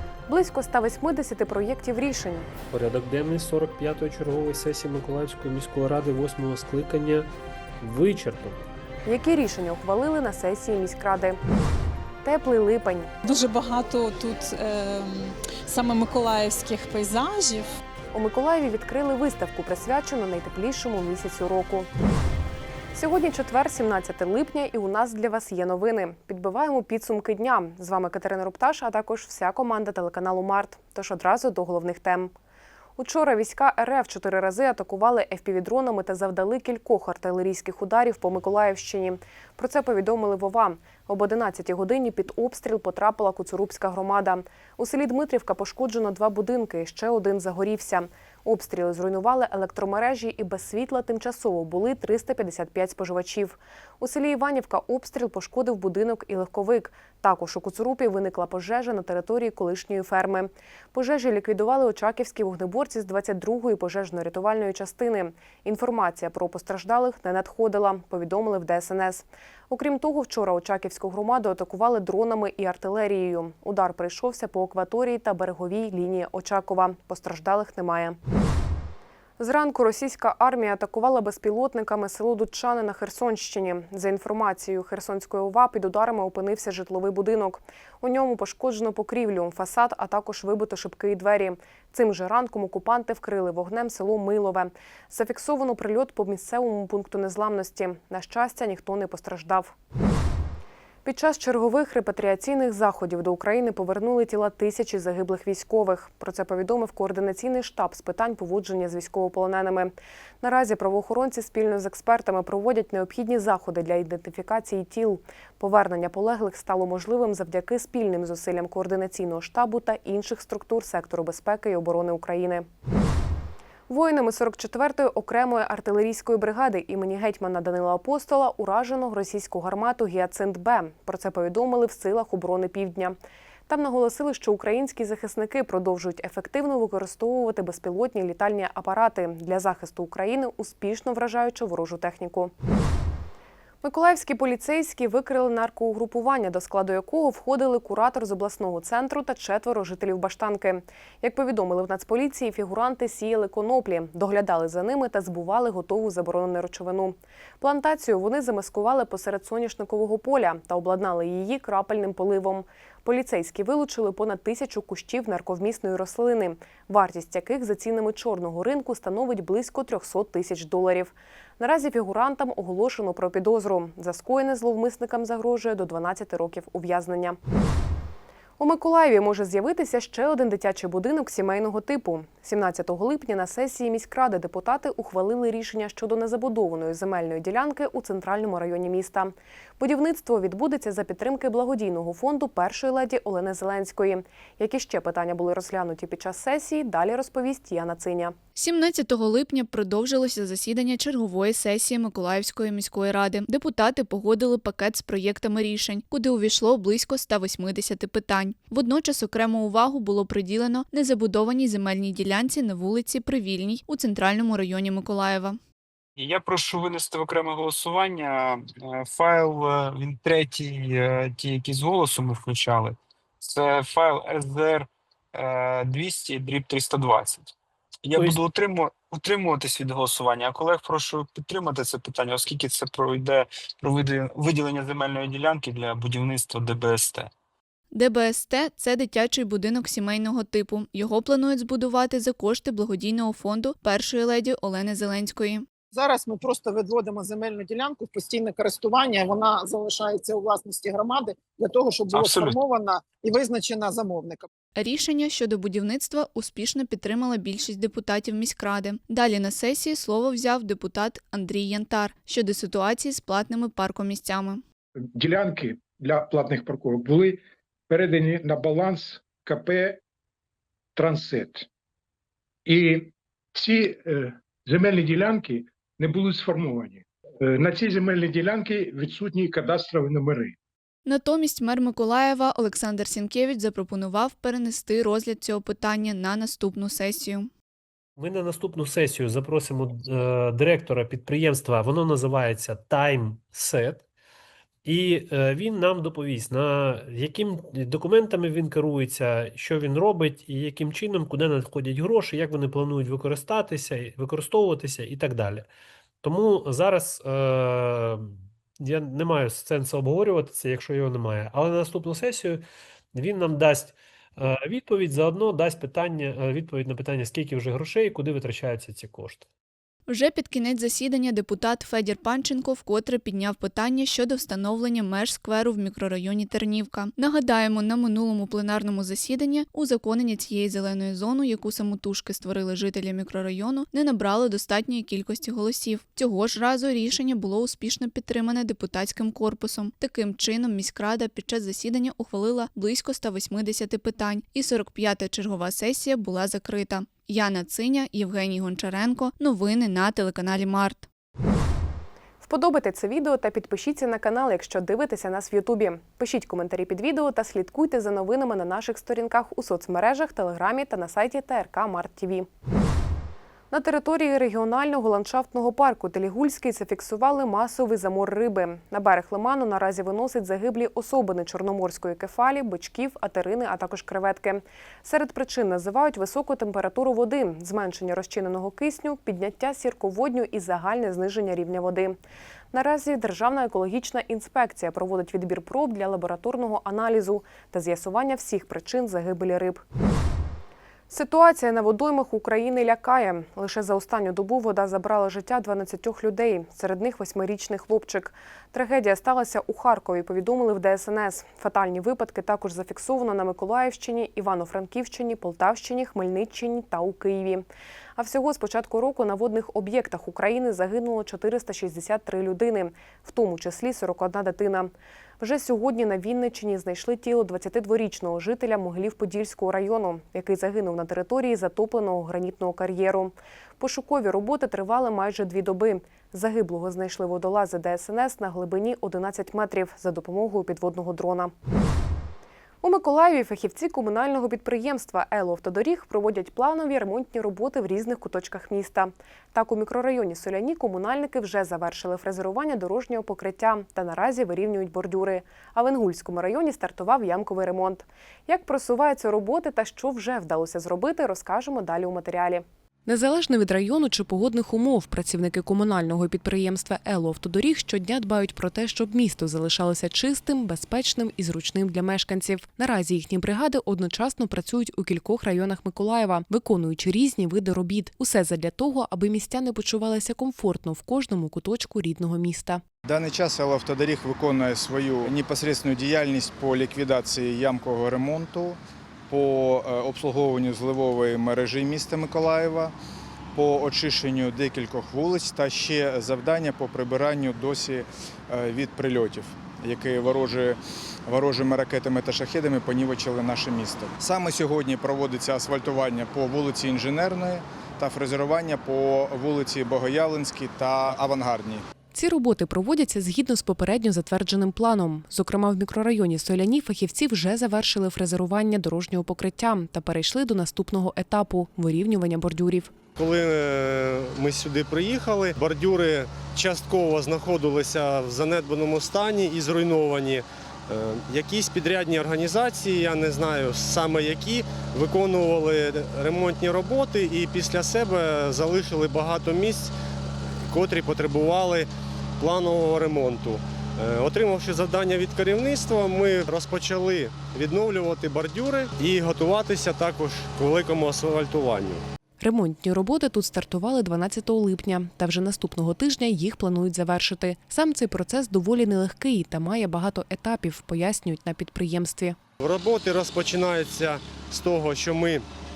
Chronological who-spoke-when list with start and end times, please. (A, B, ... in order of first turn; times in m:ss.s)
0:00.3-0:02.5 A
0:02.7-0:08.6 B
0:09.1-0:11.4 A
0:12.2-0:13.1 A
0:13.3-0:14.4 C
0:15.7-0:17.6 C
0:18.1-0:21.9 A
0:22.9-0:32.3 A
0:33.0-1:18.2 A
1:19.4-1:39.7 A
1:41.0-2:02.7 A
2:03.9-2:13.2 A
2:13.7-2:22.5 A
2:23.8-2:57.4 A
2:58.6-3:18.3 A
3:18.6-3:35.6 D
3:36.2-3:47.5 E
3:48.0-3:57.3 E
3:57.9-4:05.6 D
4:05.9-4:14.5 F
4:12.1-4:12.6 E
4:14.8-4:24.6 D
4:25.2-4:27.4 G
4:27.9-4:30.0 G
4:31.0-4:31.7 G
4:32.7-4:40.5 G
4:41.1-4:47.5 D
4:48.2-4:54.0 B
4:54.8-5:05.7 B
5:06.2-5:19.4 B
5:20.1-5:51.1 D
5:52.4-6:02.5 A
6:03.7-6:22.2 A
6:22.7-6:29.8 A
6:31.1-6:47.6 A
6:48.2-7:11.5 A
7:12.8-7:52.8 A
7:53.0-8:02.9 H
8:03.5-8:21.8 H
8:22.1-8:32.9 A
8:33.2-8:49.9 I
8:50.7-9:02.0 I
9:02.4-9:12.4 A
9:12.6-9:15.4 I